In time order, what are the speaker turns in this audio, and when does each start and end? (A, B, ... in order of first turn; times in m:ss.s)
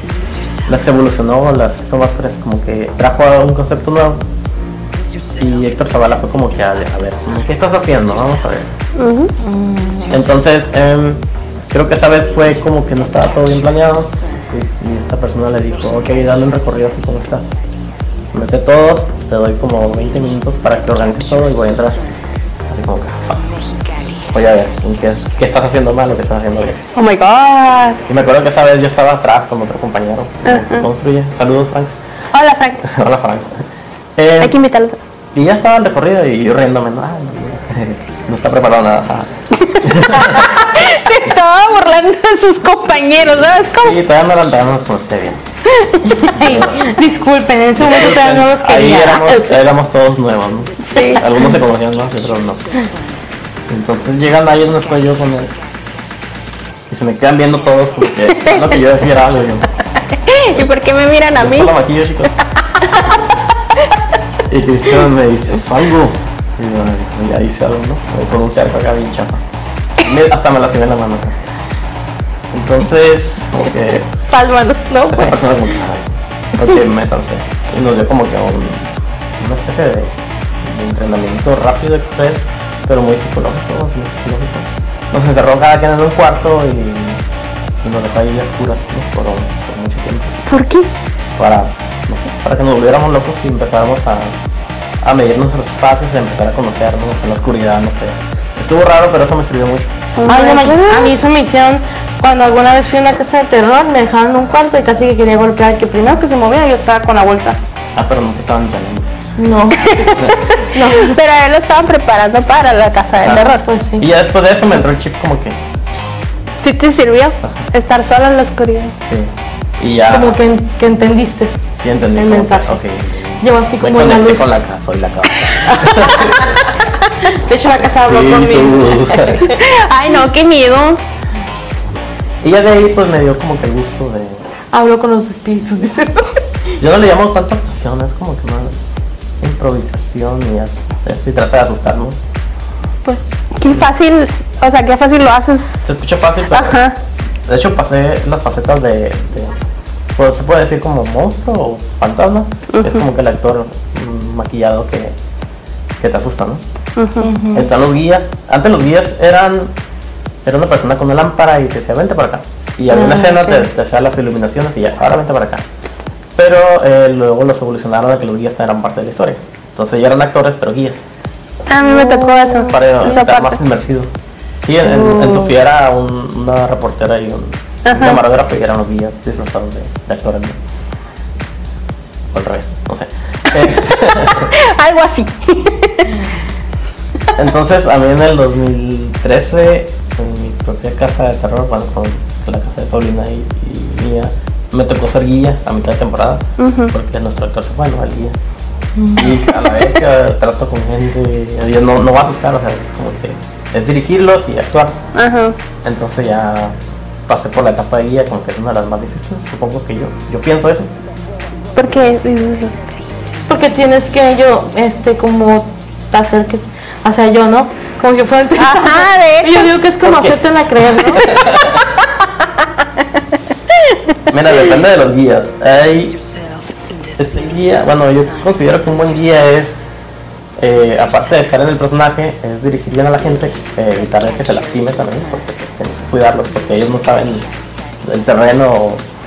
0:00.6-0:04.2 A
0:05.4-0:08.7 A
0:09.0-0:09.3 B
0:09.4-0:10.2 C
0:10.1-0:17.5 A
0:18.3-0:22.0 A
0:22.7-0:23.5 A
0:24.3-0:26.8 A
0:26.9-0:28.0 B
0:28.1-0:31.9 A
0:30.4-0:30.9 B
0:32.3-0:32.8 B
0:32.8-0:33.6 A
0:34.2-0:34.6 A
0:34.4-0:35.0 B
0:35.4-0:40.8 A
0:39.7-0:44.0 B
0:43.8-0:45.4 A
0:45.8-0:46.1 B
0:46.1-0:49.5 C
0:46.4-0:46.9 A
0:47.8-0:52.7 A
0:50.9-0:51.4 B
0:53.7-0:55.5 A
0:56.9-0:59.6 A
0:58.4-0:58.6 B
1:00.2-1:01.7 B
1:01.4-1:02.3 A
1:02.8-1:03.2 B
1:04.5-1:09.4 A
1:10.0-1:11.4 A
1:12.5-1:14.2 A
1:14.2-1:15.4 C
1:15.1-1:18.9 A
1:19.4-1:27.2 A
1:27.8-1:30.4 A
1:30.5-1:30.9 B
1:31.4-1:34.3 A
1:35.0-1:39.9 A
1:40.2-1:41.1 B
1:40.2-1:47.6 C
1:48.0-1:49.1 A
1:49.4-1:51.2 C
1:49.8-1:53.6 B
1:53.2-1:55.6 A
1:53.4-1:54.1 C
1:56.6-1:58.9 B
1:59.0-2:00.4 A
2:00.1-2:02.8 C
2:01.8-2:06.7 A
2:03.4-2:04.6 C
2:05.7-2:06.2 C
2:07.3-2:09.6 C
2:08.0-2:09.5 A
2:09.4-2:11.0 B
2:12.4-2:14.5 A
2:14.7-2:16.4 C
2:16.8-2:18.8 A
2:19.4-2:22.2 A
2:23.0-2:23.4 C
2:23.5-2:25.9 B
2:25.8-2:26.8 A
2:26.5-2:27.0 B
2:27.5-2:29.6 A
2:30.2-2:35.2 A
2:32.7-2:33.0 B
2:36.0-2:36.6 A
2:37.0-2:37.3 B
2:37.2-2:37.7 C
2:37.5-2:39.7 A
2:40.4-2:45.6 A
2:42.9-2:43.7 C
2:46.4-2:51.0 A
2:51.7-2:53.6 B
2:51.8-2:52.8 C
2:52.6-2:54.1 A
2:54.6-3:00.6 A
2:54.9-2:55.4 C
2:57.8-2:58.2 B
3:02.3-3:04.5 A
3:03.6-3:06.2 B
3:07.4-3:18.4 A
3:16.6-3:16.9 B
3:19.0-3:19.5 C
3:19.1-3:25.0 A
3:25.1-3:25.6 B
3:25.8-3:26.8 A
3:27.3-3:30.9 A
3:31.8-3:32.7 B
3:33.5-3:41.5 C
3:38.6-3:39.7 B
3:40.0-3:41.8 A
3:44.3-3:46.2 A
3:47.2-3:49.8 A
3:50.6-3:57.5 A
3:58.0-3:59.0 A